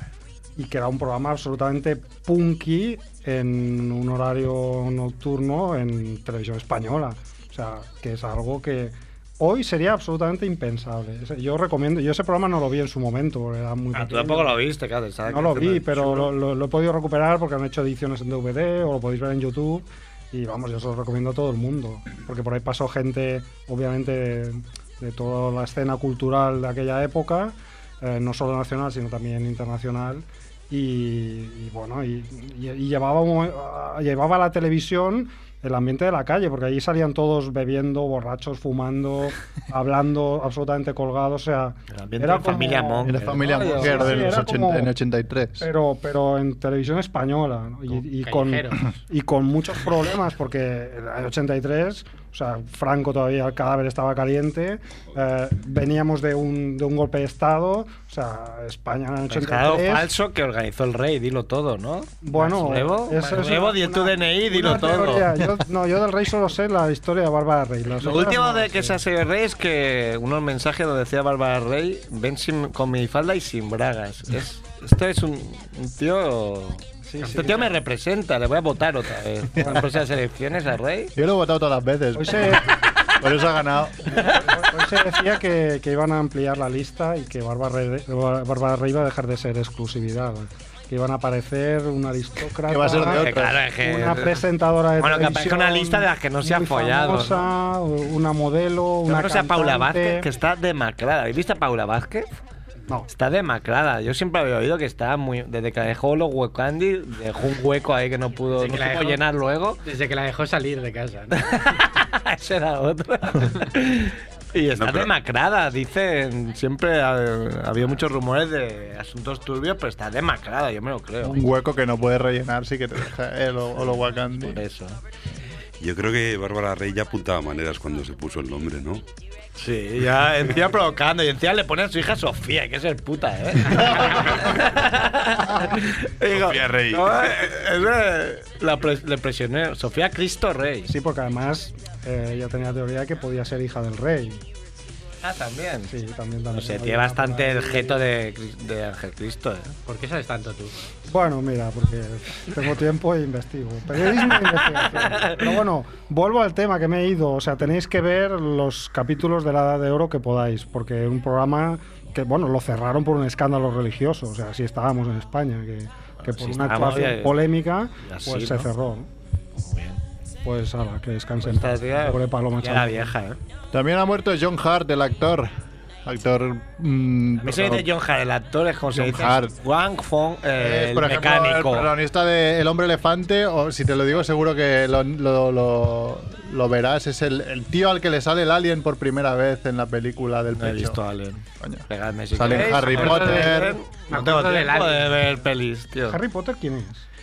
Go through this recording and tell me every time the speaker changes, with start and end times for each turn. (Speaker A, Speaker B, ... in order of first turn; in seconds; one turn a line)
Speaker A: 0.6-14.6
Speaker B: 13.9-16.3
Speaker A: 15.3-44.9
Speaker B: 41.9-44.3
Speaker C: 43.0-45.6
Speaker A: 45.6-60.0
Speaker D: 47.9-48.9
Speaker B: 59.3-65.6
Speaker A: 62.2-69.0
Speaker B: 68.0-81.1
Speaker A: 77.1-77.7
Speaker C: 81.2-84.8
Speaker A: 82.2-82.7
Speaker A: 84.2-100.3
Speaker C: 92.7-93.6
Speaker B: 93.0-94.4
Speaker B: 95.0-97.5
Speaker B: 99.1-102.3
Speaker B: 103.1-109.8
Speaker D: 108.5-109.2
Speaker D: 109.8-111.5
Speaker B: 111.3-121.4
Speaker E: 114.7-115.1
Speaker C: 121.2-124.6
Speaker B: 124.3-125.0
Speaker E: 125.8-129.0
Speaker B: 129.6-140.9
Speaker E: 136.2-137.3
Speaker A: 140.9-144.4
Speaker B: 145.2-145.9
Speaker A: 145.9-148.0
Speaker B: 146.5-149.8
Speaker D: 149.8-150.7
Speaker A: 151.1-169.1
Speaker B: 154.2-155.6
Speaker B: 166.2-167.4
Speaker B: 168.0-168.7
Speaker B: 169.5-170.0
Speaker A: 170.4-173.1
Speaker B: 171.4-173.4
Speaker C: 173.7-175.5
Speaker C: 176.0-177.9
Speaker B: 177.4-181.9
Speaker C: 178.9-179.6
Speaker C: 180.5-191.0
Speaker B: 190.5-196.2
Speaker C: 191.6-193.8
Speaker D: 192.7-195.3
Speaker A: 196.1-197.0